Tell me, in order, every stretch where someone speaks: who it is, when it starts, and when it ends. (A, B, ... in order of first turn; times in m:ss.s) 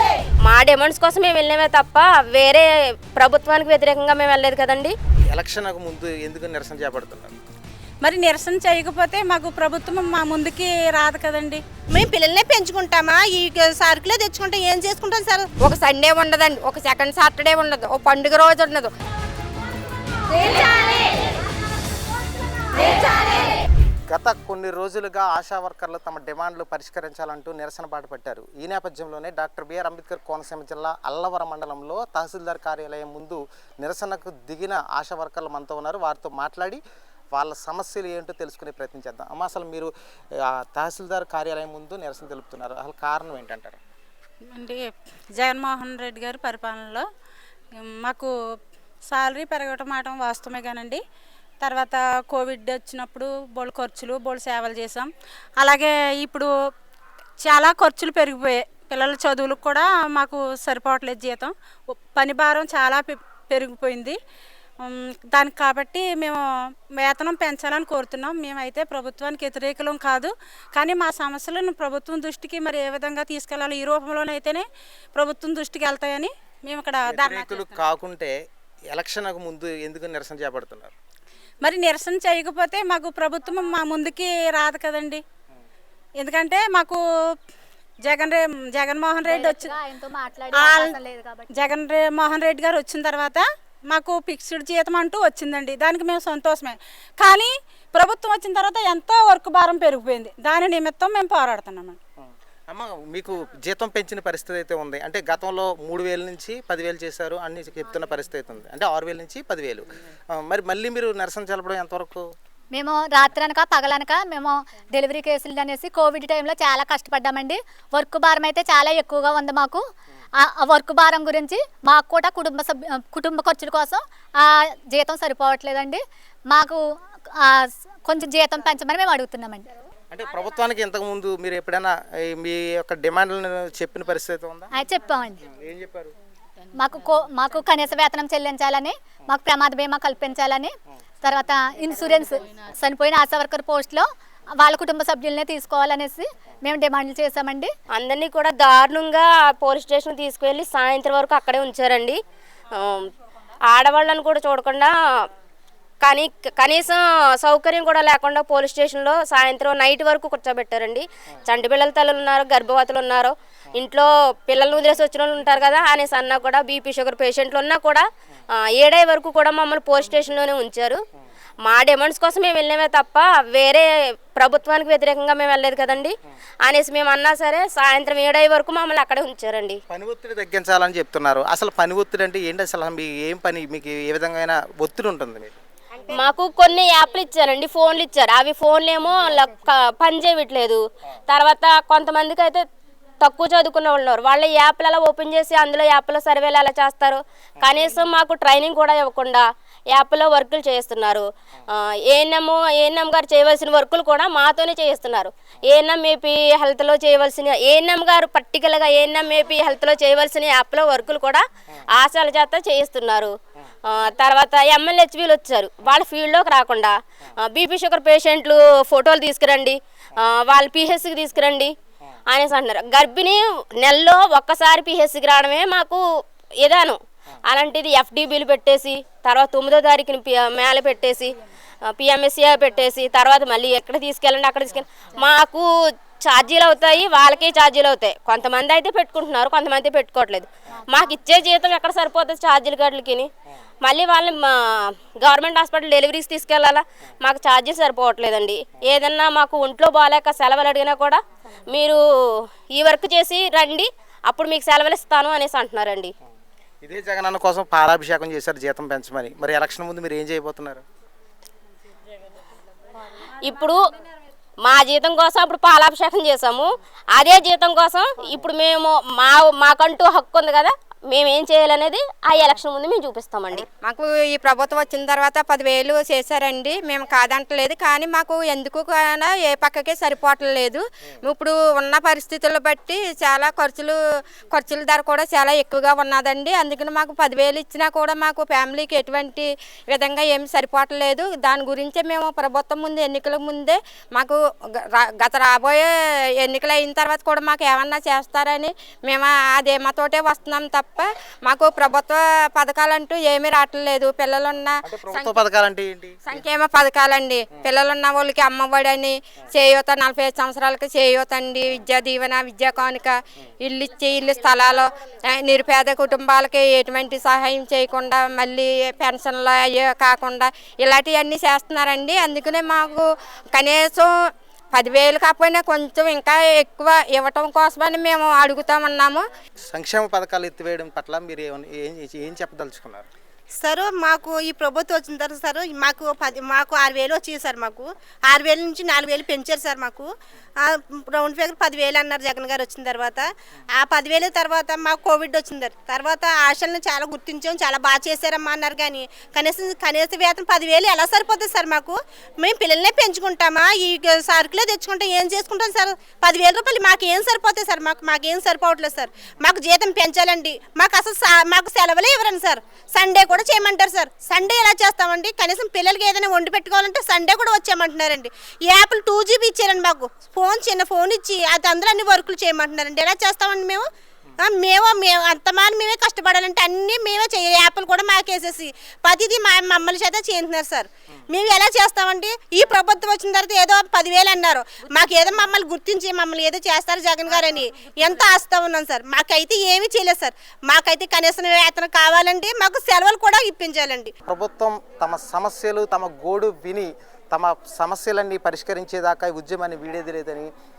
0:00.4-0:05.0 A
0:05.3-0:07.3 B
0:08.0-0:11.6 C
0:11.9-0:15.5 D
0:15.6-0:18.9 E
0:20.4-0:21.0 F
0:24.1-0:36.8 B
0:37.4-0:43.8 B
0:44.5-0:47.0 C
0:47.8-0:48.3 C
0:49.1-0:51.0 C
0:51.6-0:56.5 C
0:57.4-1:01.5 C
1:02.1-1:04.2 C
1:04.8-1:06.4 C
1:07.0-1:17.8 C
1:17.1-1:18.4 B
1:18.9-1:20.9 B
1:21.6-1:25.2 C
1:26.2-1:27.0 C
1:28.0-1:29.7 C
1:29.2-1:31.5 F
1:30.6-1:30.9 D
1:31.5-1:42.0 C
1:42.2-1:52.3 B
1:52.7-1:59.8 F
2:00.4-2:06.8 F
2:07.4-2:09.7 F
2:10.1-2:14.7 B
2:14.7-2:15.4 F
2:15.5-2:16.2 B
2:16.8-2:24.1 F
2:24.6-2:27.7 F
2:27.9-2:32.2 A
2:32.7-2:33.1 A
2:33.7-2:34.9 A
2:36.0-2:48.1 A
2:48.6-2:51.0 A
2:51.7-2:59.8 A
2:59.9-3:05.6 B
3:05.9-3:06.3 D
3:06.1-3:12.6 A
3:13.2-3:21.3 A
3:22.1-3:33.4 A
3:33.9-3:41.8 A
3:42.3-3:46.0 A
3:46.6-3:51.4 A
3:51.9-3:55.7 A
3:56.2-4:03.3 A
4:03.8-4:12.0 A
4:12.7-4:16.1 A
4:16.8-4:20.8 B
4:23.4-4:23.9 A
4:24.6-4:33.7 A
4:33.8-4:44.0 E
4:44.5-4:54.4 E
4:55.0-4:55.9 E
4:56.4-5:05.4 E
5:04.8-5:06.2 B
5:06.3-5:24.1 E
5:24.7-5:29.2 E
5:29.7-5:33.1 B
5:33.6-6:13.8 D
6:14.4-6:34.1 D
6:34.3-6:40.5 B